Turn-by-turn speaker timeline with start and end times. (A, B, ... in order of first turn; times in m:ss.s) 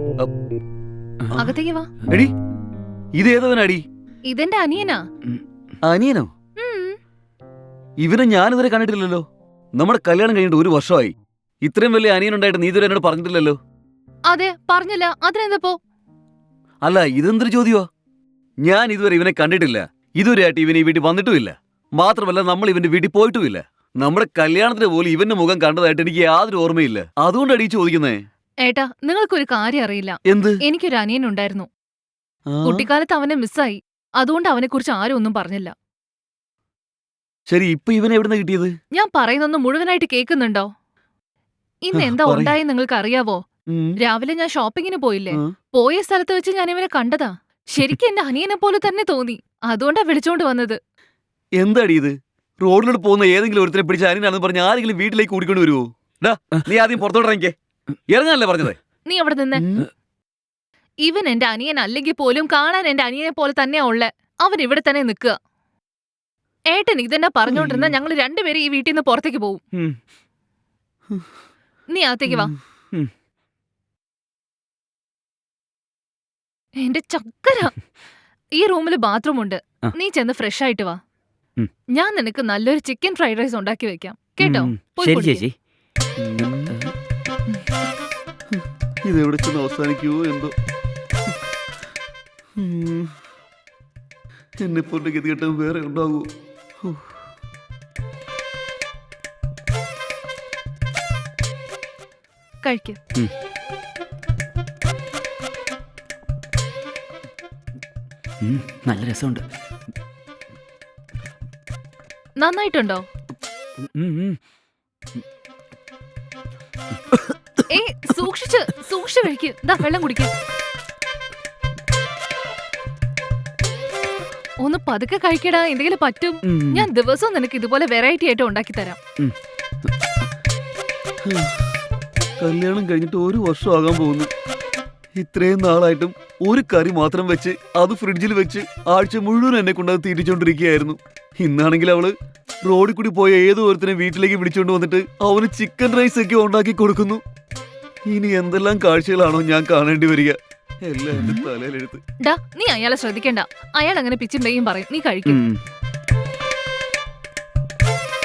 0:01.3-0:01.9 A
0:02.1-0:02.3 B
0:03.2-0:03.8 B
0:04.3-0:05.0 A
0:05.8-0:06.3 B
0:06.6-0:07.0 A
0:08.0-0:09.2 B
0:09.8-0:13.6 B
0:14.3-0:15.8 A
0:16.8-0:17.8 B
0:18.6-0:28.2 B
0:28.6-0:31.7 A
0:30.3-0:30.6 B
0:32.5-0:32.8 B
0:32.6-0:35.7 A
0:37.5-0:38.7 B
0:38.9-0:40.7 A
0:41.8-0:43.4 A
0:41.9-0:42.6 B
0:44.0-0:50.8 A
0:51.6-0:57.5 B
0:58.1-0:58.8 B
0:59.1-0:59.6 A
0:59.6-0:59.9 B
1:01.0-1:05.4 A
1:06.7-1:09.6 A
1:07.5-1:08.0 B
1:11.9-1:12.5 A
1:16.8-1:17.7 A
1:18.6-1:21.0 A
1:21.9-1:25.4 A
1:24.4-1:25.5 C
1:26.2-1:26.7 B
1:26.4-1:26.9 C
1:29.0-1:30.5 B
1:32.6-1:33.2 B
1:34.6-1:36.3 B
1:36.8-1:37.1 B
1:42.6-1:43.0 A
1:48.4-1:49.4 C
1:52.4-1:53.0 A
1:54.0-1:54.4 C
1:57.7-2:00.3 A
2:04.6-2:09.0 A
2:11.2-2:11.7 B
2:12.4-2:14.3 B
2:15.2-2:22.1 B
2:22.6-2:27.2 B
2:28.1-2:32.0 B
2:32.2-2:35.4 A
2:35.3-2:35.6 C